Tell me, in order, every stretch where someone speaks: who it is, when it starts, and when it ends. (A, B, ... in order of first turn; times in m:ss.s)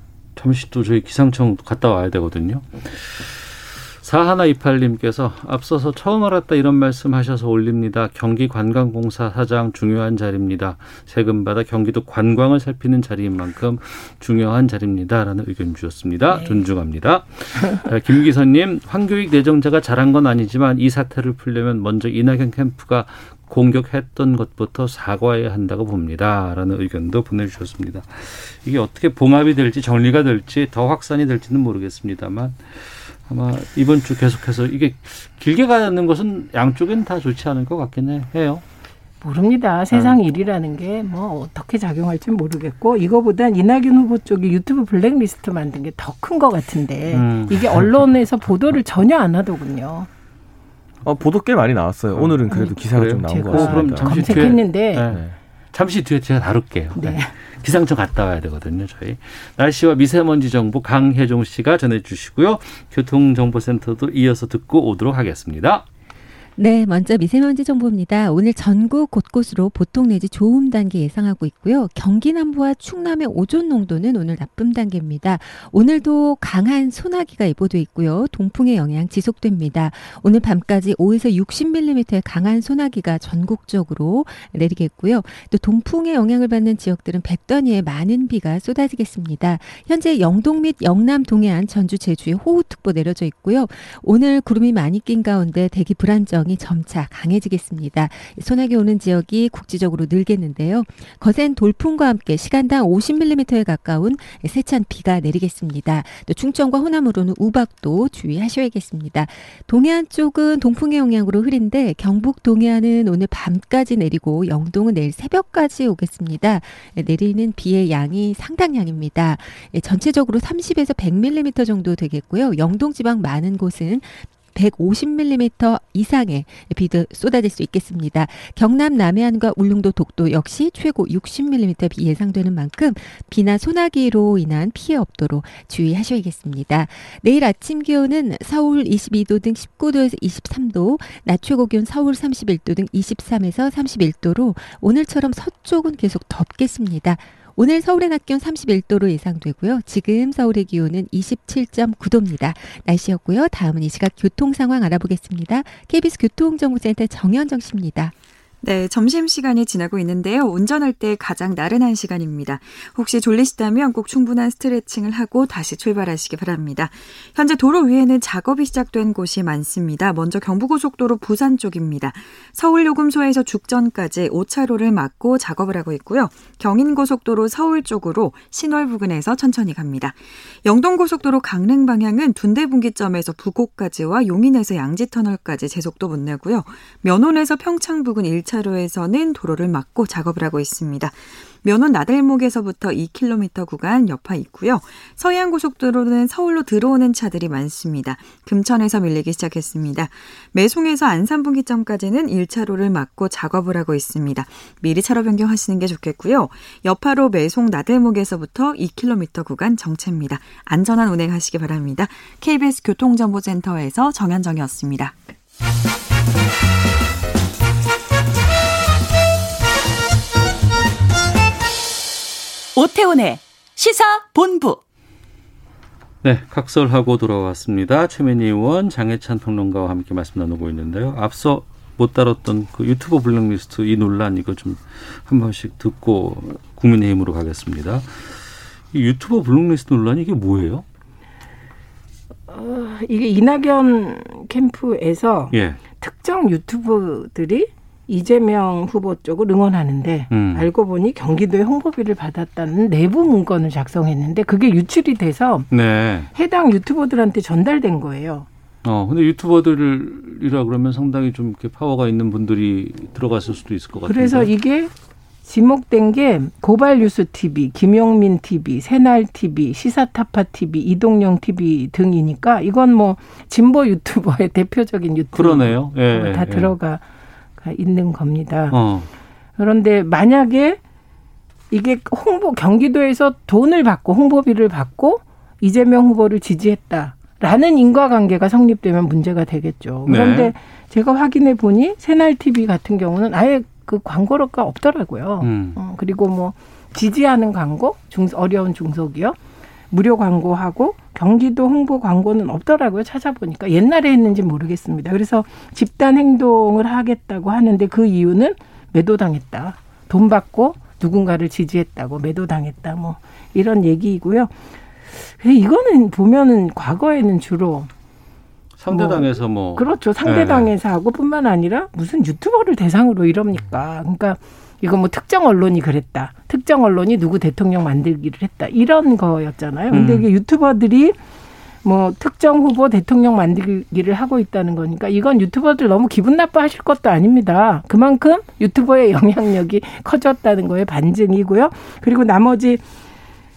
0:00.4-0:38.6 A
0:39.2-0:50.1 B
0:39.9-0:40.2 A
0:47.1-0:48.0 A
0:51.0-0:55.4 C
0:52.2-1:05.8 A
0:52.5-0:55.0 B
0:57.0-0:57.3 B
1:06.6-2:38.1 D
2:38.6-3:35.3 E
3:46.2-3:58.4 A
3:58.9-4:00.8 A
4:02.5-4:15.7 B
4:05.5-4:05.8 A
4:10.3-4:10.7 A
4:15.7-4:16.3 A
4:16.3-4:18.5 B
4:18.8-4:24.5 A
4:24.1-4:24.9 B
4:25.4-4:37.0 B
4:35.3-4:36.7 A
4:37.6-4:38.8 B
4:38.7-4:39.1 A
4:39.6-4:40.8 B
4:41.7-4:59.4 B
4:50.1-4:50.5 A
4:55.4-4:55.8 A
4:59.9-5:14.5 B
5:15.3-5:17.9 B
5:18.8-5:20.7 A
5:18.9-5:31.2 B
5:29.9-5:30.3 A
5:31.8-5:42.8 B